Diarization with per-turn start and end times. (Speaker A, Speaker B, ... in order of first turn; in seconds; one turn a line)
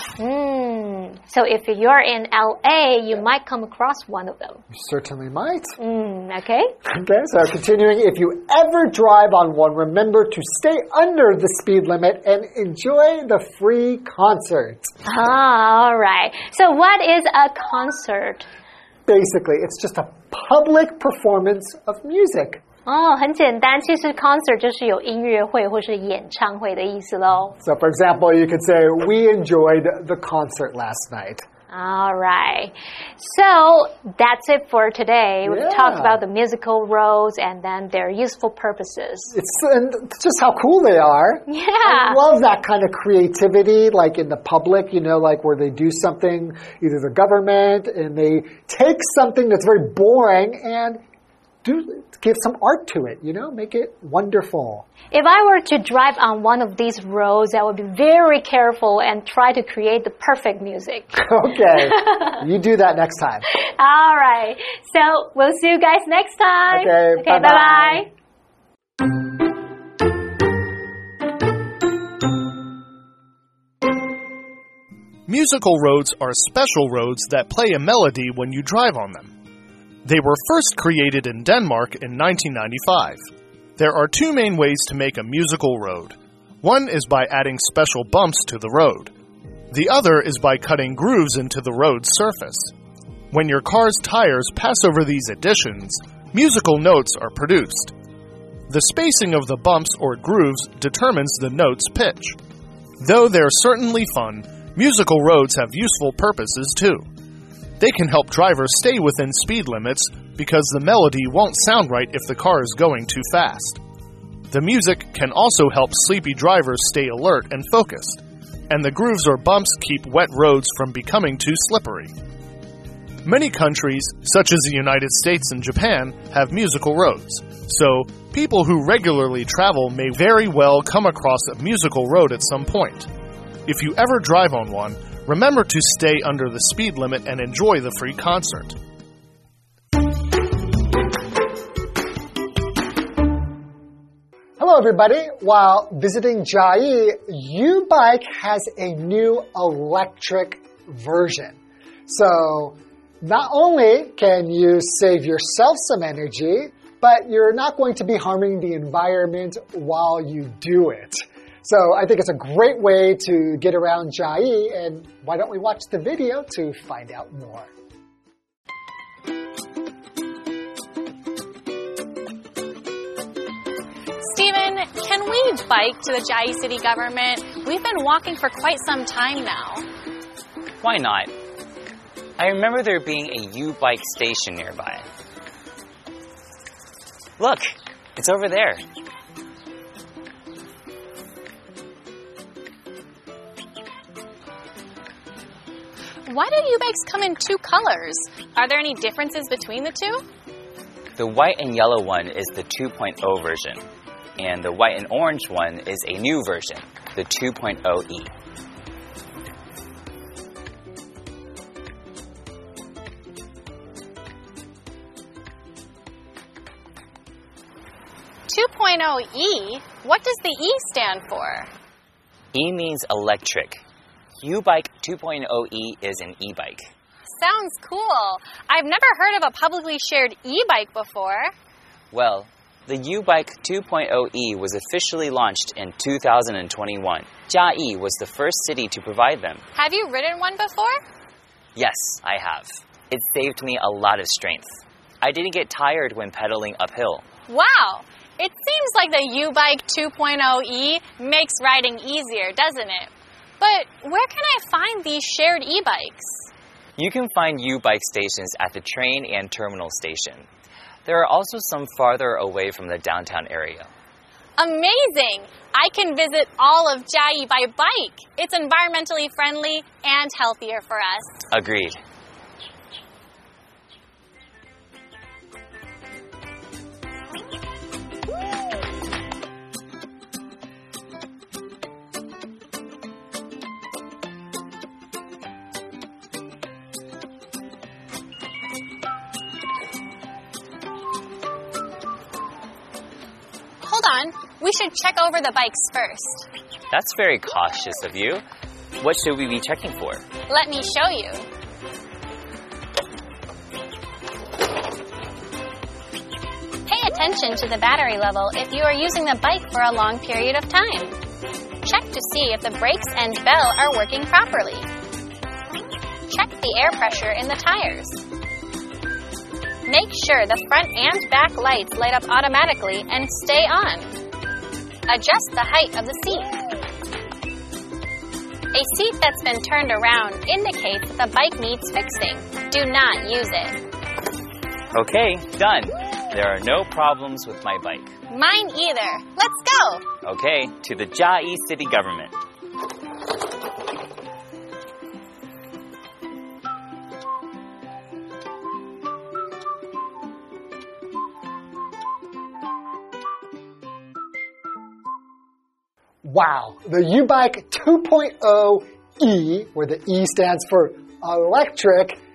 Speaker A: 0.2-4.6
Speaker B: 4.7-5.8
Speaker A: 5.8-6.7
Speaker B: 6.8-14.9
Speaker A: 15.1-18.5
Speaker B: 19.1-22.6
Speaker A: 22.9-27.6
Speaker B: 27.6-31.4
Speaker A: 31.7-39.3
Speaker B: 35.5-36.2
Speaker B: 39.3-51.0
Speaker A: 41.5-42.2
Speaker B: 51.6-54.9
Speaker A: 55.1-61.2
Speaker B: 61.1-63.5
Speaker A: 61.9-62.3
Speaker A: 63.5-68.1
Speaker B: 66.7-68.1
Speaker C: 75.3-79.3
Speaker C: 80.0-83.2
Speaker C: 83.8-89.1
Speaker C: 89.7-92.7
Speaker C: 93.3-97.9
Speaker C: 98.7-102.4
Speaker C: 103.0-107.0
Speaker C: 107.8-113.8
Speaker C: 114.5-122.1
Speaker C: 123.2-133.1
Speaker C: 133.7-138.8
Speaker B: 144.6-167.7
Speaker D: 174.2-179.8
Speaker E: 180.8-181.3
Speaker E: 182.4-185.0
Speaker E: 187.4-188.8
Speaker D: 196.2-200.2
Speaker E: 201.2-203.8
Speaker E: 204.4-208.3
Speaker D: 218.5-221.7
Speaker E: 222.5-223.8
Speaker E: 224.4-226.9
Speaker D: 227.3-231.5
Speaker E: 232.1-239.6
Speaker D: 239.7-241.0
Speaker E: 241.8-247.2
Speaker D: 247.5-256.4
Speaker E: 257.0-260.4
Speaker E: 261.0-263.9
Speaker D: 264.6-271.4
Speaker E: 271.5-272.0
Speaker D: 293.8-296.5
Speaker E: 296.9-298.4
Speaker E: 299.0-300.2
Speaker D: 300.5-301.4
Speaker D: 306.9-311.1
Speaker D: 311.8-314.9
Speaker D: 316.3-318.2
Speaker D: 319.9-324.2
Speaker D: 325.1-326.6
Speaker D: 328.7-333.8
Speaker E: 334.9-338.1
Speaker D: 338.3-340.0
Speaker E: 340.2-342.3
Speaker B: 356.2-362.2